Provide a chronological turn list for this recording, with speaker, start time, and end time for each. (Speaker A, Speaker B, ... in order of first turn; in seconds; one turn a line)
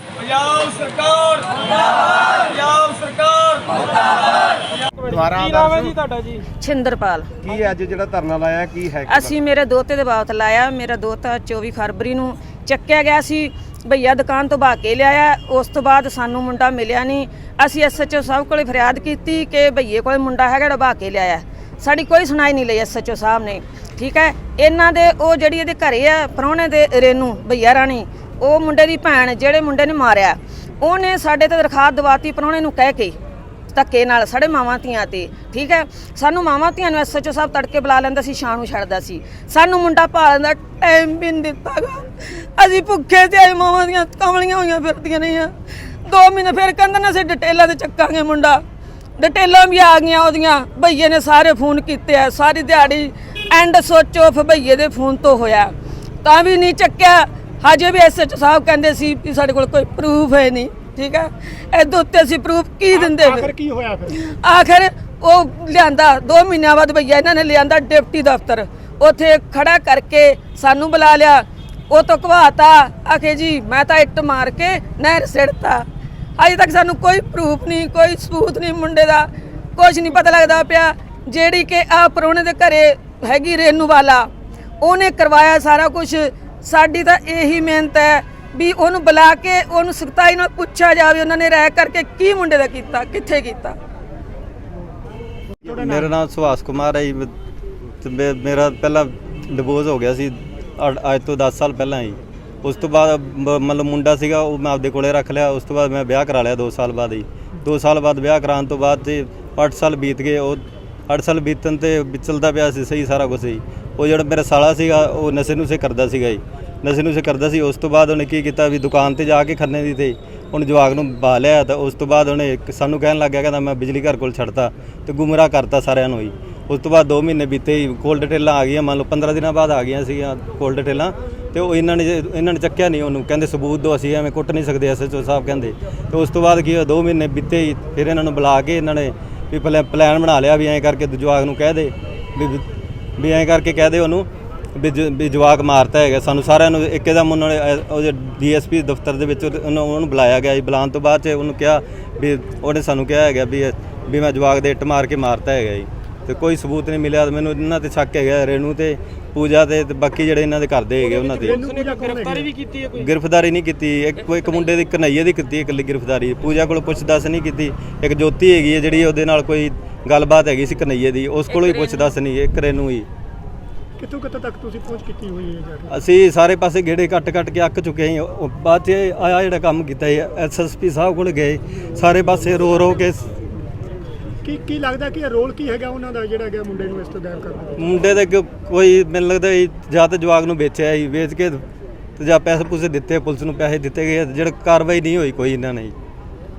Speaker A: 0.2-6.4
Speaker B: 5.1-5.9
Speaker C: 6.6-7.3
Speaker B: 7.4-9.3
Speaker C: 9.1-33.2
Speaker C: 33.7-48.6
Speaker C: 49.2-55.7
Speaker C: 56.2-63.5
Speaker D: 62.9-64.2
Speaker C: 64.1-75.8
Speaker C: 76.4-84.3
Speaker C: 84.8-93.8
Speaker E: 95.6-97.3
Speaker D: 95.6-96.1
Speaker E: 98.0-142.7
Speaker E: 143.2-161.6
Speaker A: 161.0-163.1
Speaker D: 161.4-162.5
Speaker E: 163.0-173.1
Speaker C: 171.5-172.2
Speaker D: 174.0-175.9
Speaker E: 175.9-183.3
Speaker D: 184.4-187.9
Speaker E: 187.8-191.6
Speaker E: 192.2-195.9